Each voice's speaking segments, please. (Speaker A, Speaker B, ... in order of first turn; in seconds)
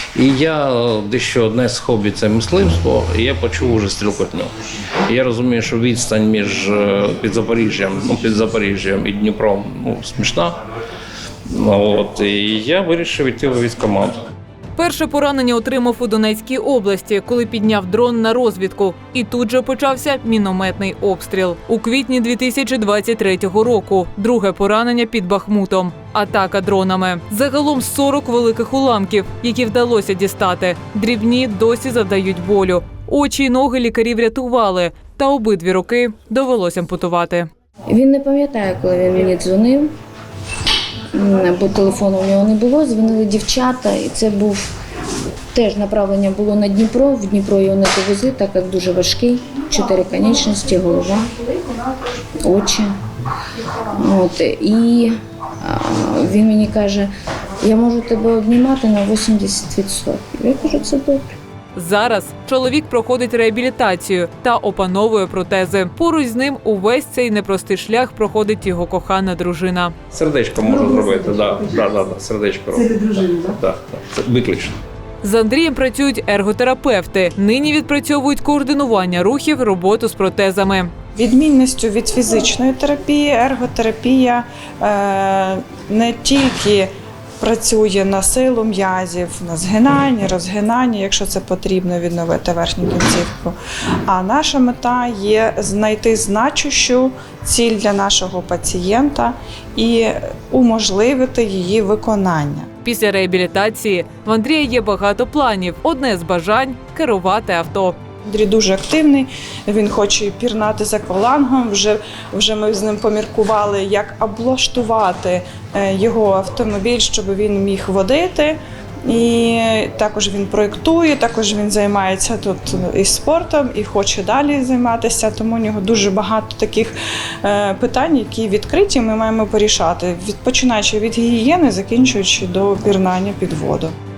Speaker A: 0.1-4.5, 5.0-10.6, 11.5-14.2, 70.1-74.8
Speaker B: 14.8-37.5, 61.7-69.9, 75.2-80.9, 102.8-108.0
Speaker C: 37.9-39.9, 41.1-44.7, 45.5-51.4, 52.4-52.9, 53.7-61.3
Speaker D: 81.1-86.9, 87.4-93.5, 94.0-102.7, 108.2-118.6, 119.1-133.9